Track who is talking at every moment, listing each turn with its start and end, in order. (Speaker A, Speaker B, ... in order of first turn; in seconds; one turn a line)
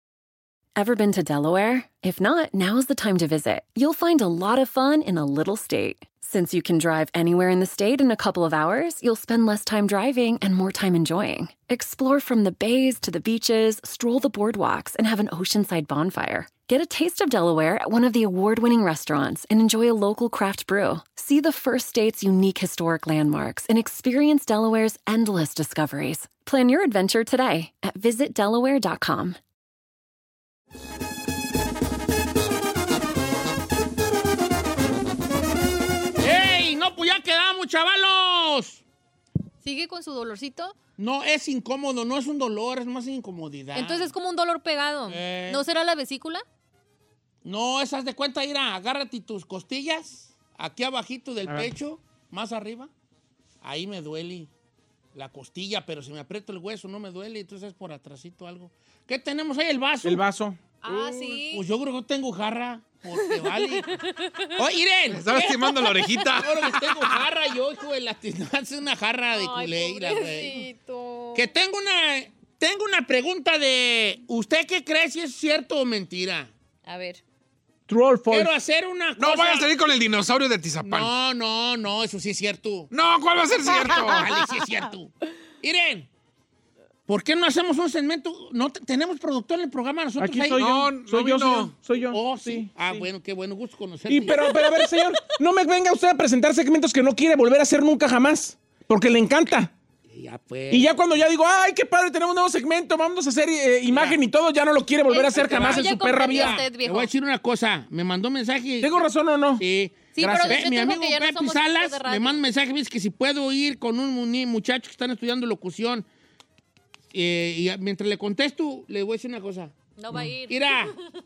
Speaker A: 0.8-29.4
Speaker B: 36.2-38.8
Speaker C: 39.6-40.8
Speaker B: 41.0-44.1
Speaker C: 43.7-46.4
Speaker B: 45.1-45.6
Speaker B: 47.4-52.9
Speaker B: 53.6-54.5
Speaker B: 55.1-60.2
Speaker D: 60.0-61.4
Speaker C: 60.8-61.6
Speaker B: 61.5-64.0
Speaker C: 64.0-64.5
Speaker B: 64.5-70.7
Speaker E: 65.1-67.2
Speaker C: 69.3-71.5
Speaker B: 71.3-76.5
Speaker C: 76.9-77.2
Speaker D: 77.9-78.5
Speaker B: 78.3-79.7
Speaker E: 79.2-81.1
Speaker B: 80.8-82.9
Speaker E: 82.9-84.5
Speaker B: 83.7-85.1
Speaker B: 85.6-86.1
Speaker B: 87.1-90.6
Speaker D: 90.2-93.1
Speaker E: 90.5-91.8
Speaker B: 92.1-94.7
Speaker D: 94.1-99.7
Speaker B: 100.1-100.9
Speaker D: 100.7-106.6
Speaker B: 103.9-104.2
Speaker C: 105.1-107.1
Speaker B: 105.3-109.0
Speaker D: 108.8-109.6
Speaker B: 109.6-116.1
Speaker C: 110.2-112.4
Speaker D: 110.2-110.6
Speaker B: 117.1-120.9
Speaker C: 120.0-121.0